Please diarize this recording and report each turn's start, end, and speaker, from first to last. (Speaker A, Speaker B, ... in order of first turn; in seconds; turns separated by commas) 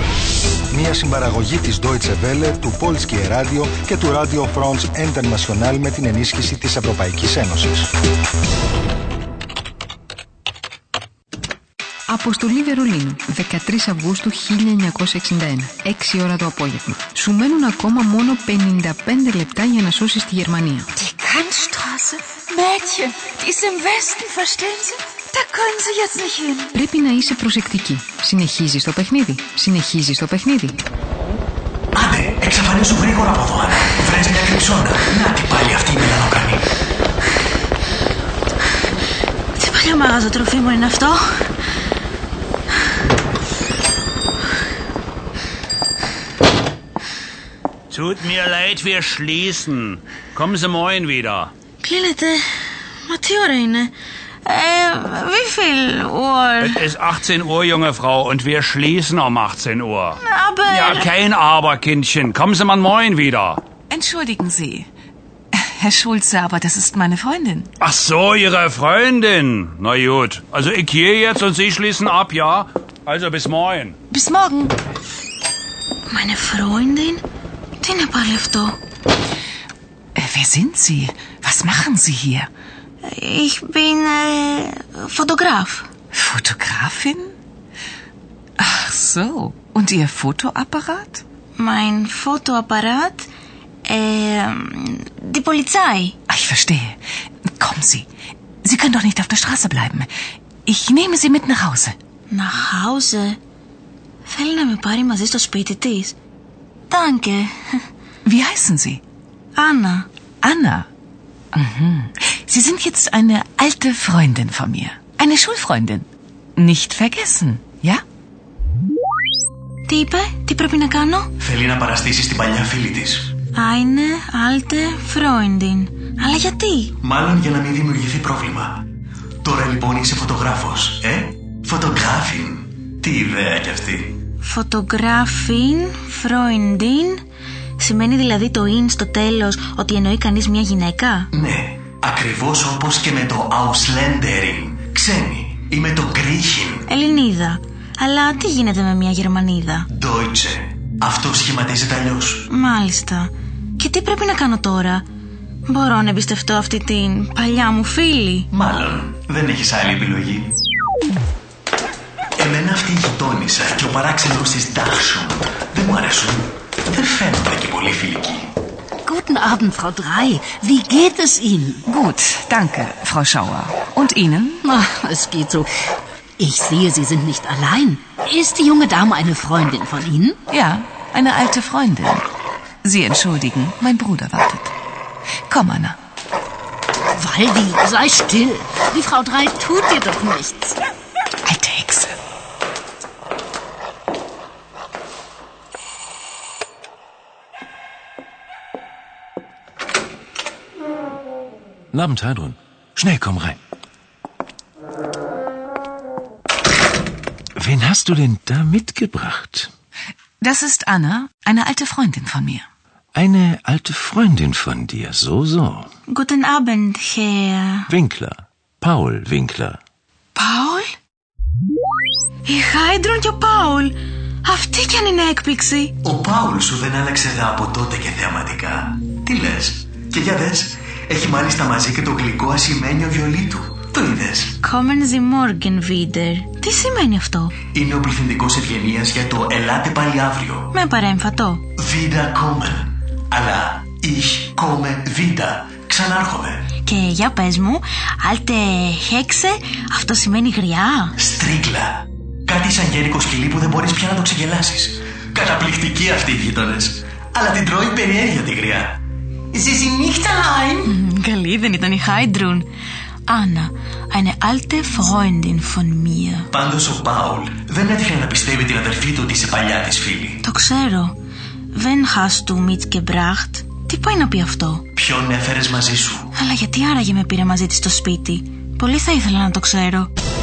Speaker A: 0.7-7.9, Speaker B: 12.1-20.9, Speaker C: 21.0-26.7, Speaker B: 26.7-30.8, Speaker D: 31.9-36.7, Speaker E: 39.5-41.2, Speaker F: 47.9-51.5, Speaker E: 51.8-56.8, Speaker F: 56.6-63.6, Speaker E: 60.2-61.1, Speaker C: 63.9-64.9, Speaker C: 65.5-67.7, Speaker F: 67.8-74.0, Speaker C: 74.1-74.7, Speaker E: 76.1-77.2, Speaker E: 77.8-78.8, Speaker C: 80.2-82.5, Speaker E: 83.0-85.9, Speaker C: 86.1-87.3, Speaker C: 88.6-91.2, Speaker E: 91.6-93.3, Speaker E: 93.8-96.1, Speaker C: 96.3-97.0, Speaker C: 97.6-98.1, Speaker C: 98.6-100.1, Speaker C: 100.7-101.9, Speaker E: 102.3-103.4, Speaker E: 104.2-106.1, Speaker E: 106.9-107.5, Speaker C: 108.2-109.0, Speaker E: 109.5-110.1, Speaker C: 110.4-110.9, Speaker C: 111.5-118.0, Speaker E: 119.9-121.3, Speaker D: 121.4-123.3, Speaker E: 123.5-126.9, Speaker D: 127.0-128.8, Speaker D: 129.4-134.2, Speaker E: 134.4-137.2, Speaker E: 137.8-141.3, Speaker D: 141.3-146.8, Speaker E: 146.9-149.9, Speaker D: 149.9-152.4, Speaker E: 152.5-155.1, Speaker E: 155.7-158.5, Speaker D: 158.5-160.5, Speaker D: 162.4-168.5, Speaker G: 169.0-171.8, Speaker C: 171.8-174.6, Speaker G: 174.6-175.7, Speaker G: 176.4-180.4, Speaker C: 180.5-182.2, Speaker C: 182.8-184.7, Speaker C: 185.5-185.9, Speaker G: 187.1-190.8, Speaker C: 191.4-192.1, Speaker H: 201.9-203.6, Speaker H: 207.6-209.7, Speaker C: 210.4-212.6, Speaker H: 213.1-215.9, Speaker E: 216.1-217.9, Speaker H: 217.9-219.8, Speaker E: 220.3-220.9, Speaker E: 222.4-225.9, Speaker D: 226.0-234.6, Speaker E: 234.6-237.6, Speaker D: 237.7-240.7, Speaker E: 240.7-241.6, Speaker D: 241.8-246.6, Speaker E: 246.8-251.1, Speaker D: 251.2-259.0, Speaker D: 259.5-260.9, Speaker E: 260.8-262.7, Speaker E: 263.3-266.5, Speaker D: 266.5-270.4, Speaker E: 270.4-271.2, Speaker E: 271.7-274.9, Speaker D: 274.9-276.3, Speaker E: 276.3-280.1